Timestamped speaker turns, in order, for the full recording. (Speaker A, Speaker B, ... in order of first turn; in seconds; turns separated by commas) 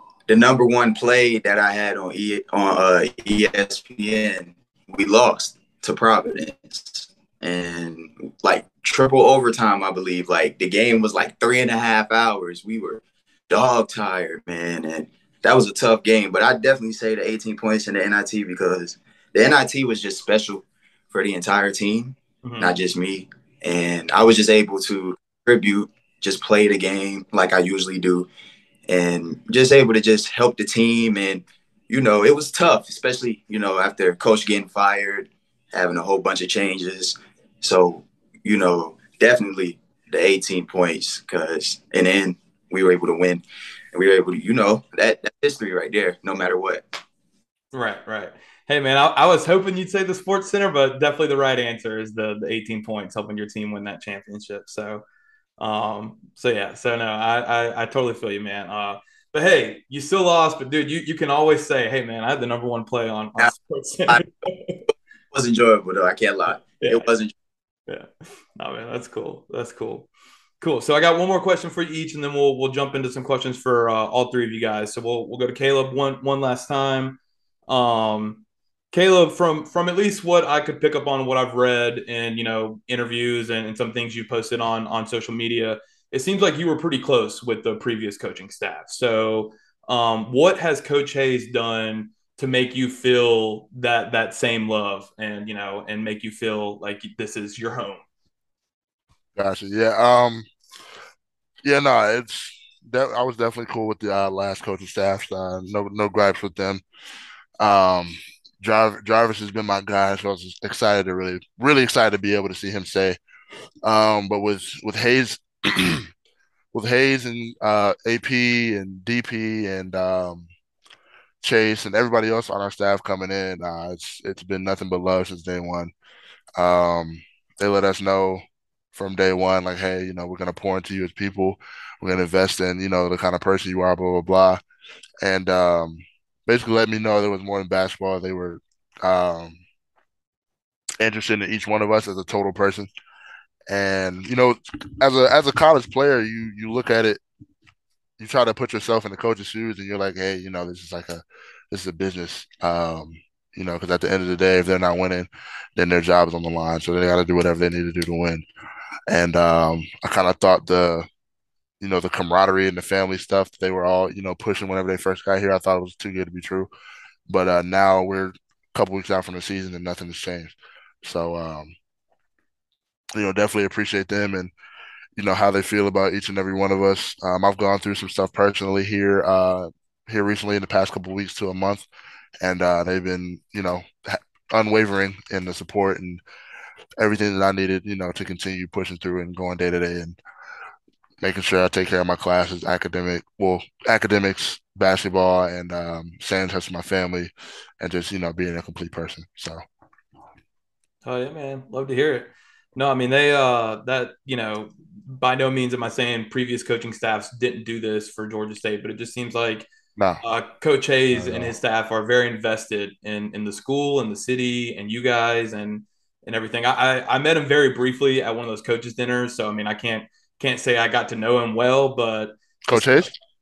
Speaker A: 0.3-28.3, Speaker B: 22.4-22.7, Speaker A: 28.9-46.8, Speaker B: 47.7-55.0, Speaker B: 55.6-64.8, Speaker A: 65.3-67.3, Speaker B: 66.8-67.1, Speaker B: 67.9-70.1, Speaker B: 70.6-98.0, Speaker C: 99.3-100.5, Speaker C: 101.6-106.8, Speaker C: 107.6-113.2, Speaker C: 113.8-116.1, Speaker C: 116.7-120.5, Speaker C: 121.4-125.9, Speaker C: 126.5-128.4, Speaker C: 128.9-134.6, Speaker C: 135.2-139.6, Speaker C: 141.0-142.9, Speaker C: 143.7-147.2, Speaker C: 148.2-158.4, Speaker C: 159.1-161.1, Speaker C: 161.8-166.7, Speaker C: 167.3-171.7, Speaker C: 173.1-174.5, Speaker C: 175.2-181.8, Speaker C: 182.4-186.2, Speaker C: 187.0-190.2, Speaker C: 191.2-199.6, Speaker B: 201.0-209.7, Speaker B: 210.2-223.1, Speaker C: 211.1-211.5, Speaker C: 222.7-223.1